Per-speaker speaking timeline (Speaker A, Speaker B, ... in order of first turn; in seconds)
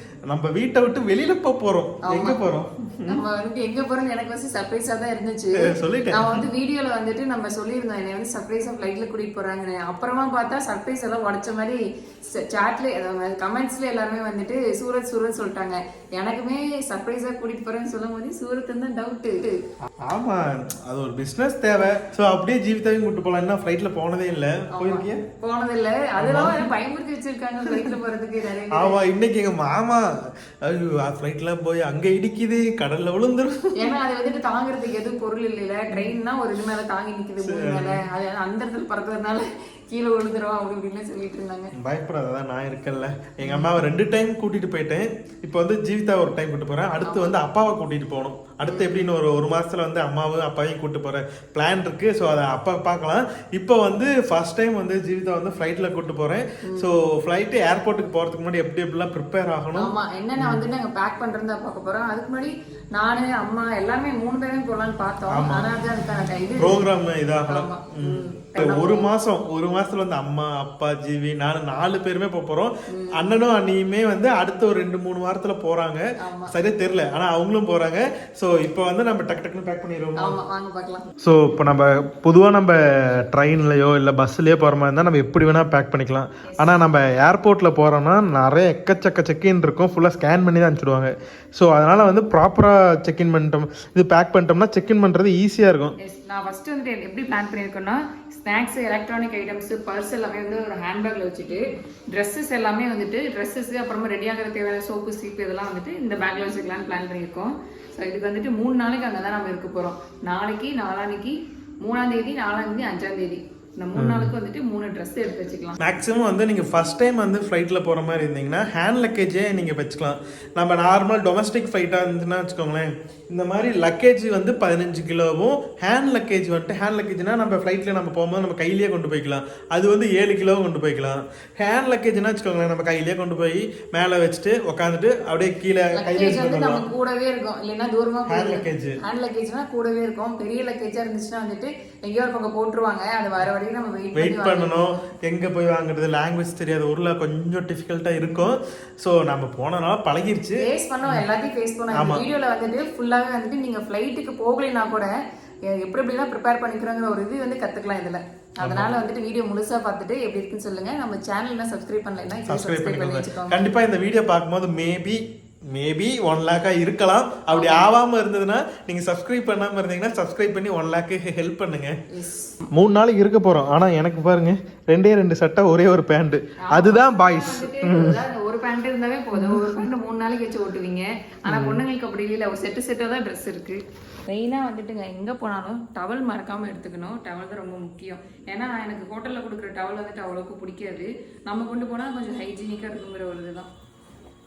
Speaker A: 0.3-3.2, 5.6-6.5, 20.1-25.2, 26.2-26.7, 27.6-27.9, 28.7-34.0, 35.9-36.1, 37.4-38.0, 41.7-60.6, 65.3-65.7, 66.6-80.4, 81.2-95.9, 114.0-114.3, 115.8-136.9, 138.3-139.0, 144.2-151.2, 151.9-152.3, 158.6-158.9, 162.5-171.9, 172.7-178.2, 179.3-179.8, 181.5-181.8
Speaker B: 2.0-2.4, 3.1-11.8, 12.3-19.6, 24.7-29.0, 33.8-41.7, 43.4-43.8, 47.0-47.3, 48.6-49.0, 56.6-56.9, 59.7-66.8, 67.5-69.1, 72.9-73.2, 76.2-76.5, 80.2-81.1, 86.5-86.8, 96.0-115.8, 135.9-144.9, 150.6-155.1, 155.7-163.6, 167.5-167.9, 172.1-172.6, 176.6-193.7